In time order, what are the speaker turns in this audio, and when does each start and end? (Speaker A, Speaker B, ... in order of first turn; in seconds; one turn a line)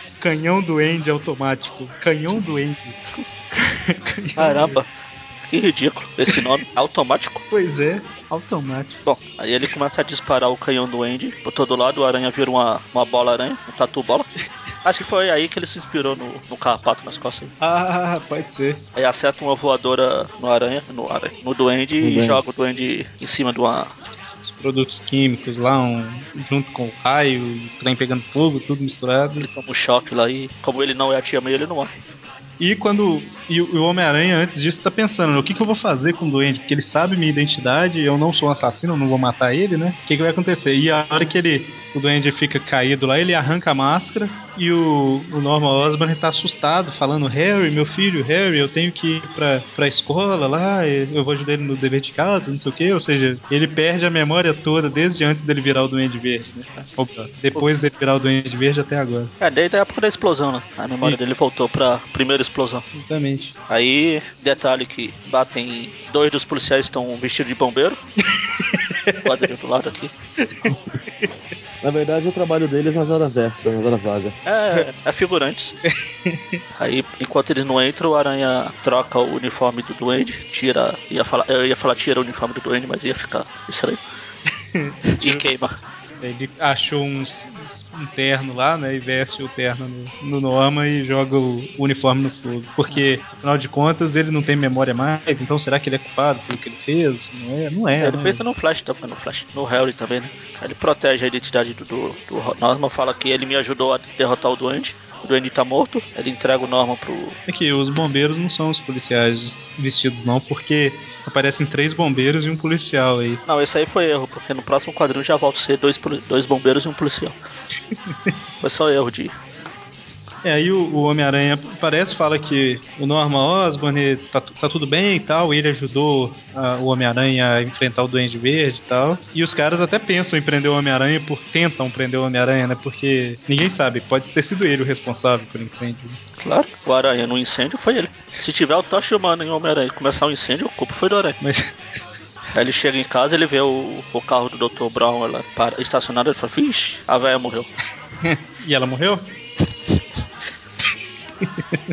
Speaker A: 0.2-3.0
Speaker A: 3.5-4.8
Speaker B: 4.4-4.9
Speaker B: 5.5-7.4
Speaker A: 7.5-9.0
Speaker B: 9.1-14.3
Speaker B: 14.8-17.5
Speaker A: 17.6-18.8
Speaker B: 19.0-23.9
Speaker C: 22.0-22.4
Speaker A: 24.4-29.5
Speaker B: 29.4-32.0
Speaker A: 32.6-59.3
Speaker B: 59.4-62.9
Speaker A: 62.9-63.5
Speaker B: 63.7-68.0
Speaker A: 68.4-69.3
Speaker B: 69.2-70.1
Speaker A: 70.4-70.8
Speaker C: 71.8-74.5
Speaker B: 74.5-75.8
Speaker A: 75.9-76.6
Speaker B: 76.7-84.0
Speaker A: 84.7-85.4
Speaker B: 85.1-85.7
Speaker A: 86.2-98.4
Speaker B: 98.0-107.4
Speaker A: 107.5-113.4
Speaker B: 113.5-117.3
Speaker B: 118.6-119.3
Speaker A: 120.4-136.2
Speaker B: 136.4-141.4
Speaker A: 141.4-141.7
Speaker B: 142.5-147.7
Speaker A: 148.2-149.3
Speaker A: 151.4-151.8